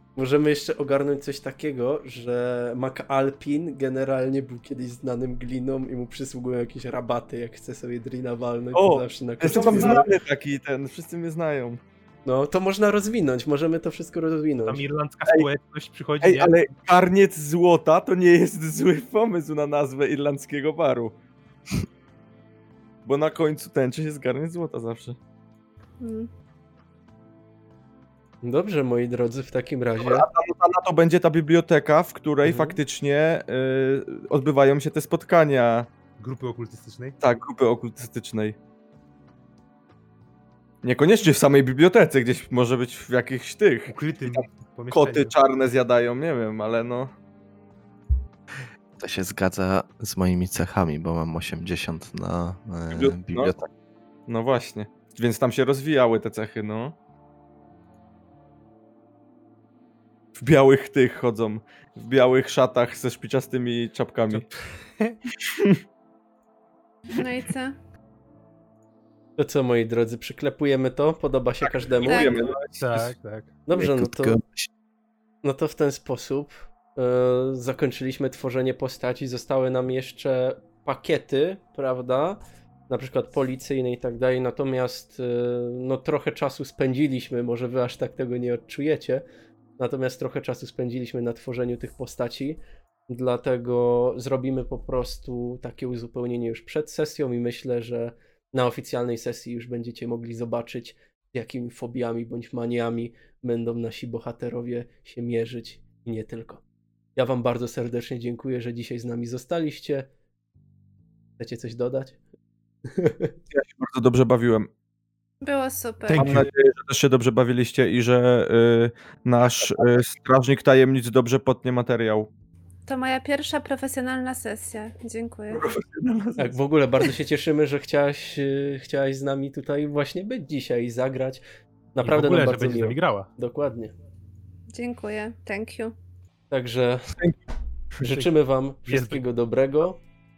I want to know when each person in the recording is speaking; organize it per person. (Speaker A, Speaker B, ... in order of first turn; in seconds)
Speaker A: 0.2-10.0, 12.2-14.8, 28.4-30.3, 32.4-32.8, 69.4-72.4, 73.7-74.4, 75.4-89.2, 89.8-106.6, 107.2-110.1, 111.4-112.2, 112.9-113.3, 126.4-131.4, 131.9-133.9, 136.5-137.2, 138.0-140.0
Speaker B: 8.7-11.8, 16.2-21.1, 23.1-25.2, 30.0-35.9, 37.2-38.6, 40.8-47.1, 52.9-53.5, 54.3-57.0, 60.4-64.5, 65.4-65.8, 71.6-73.1, 113.5-114.7, 116.2-122.3, 125.5-127.1
Speaker C: 9.4-10.1, 14.7-16.7, 36.2-37.2, 43.9-45.3, 72.8-73.5, 116.1-116.5, 132.0-133.3, 138.9-139.2
Speaker D: 26.0-26.3, 67.1-67.8, 72.0-72.4, 115.4-116.4, 122.9-125.7, 134.7-135.9
Speaker E: 49.0-53.7, 73.8-74.7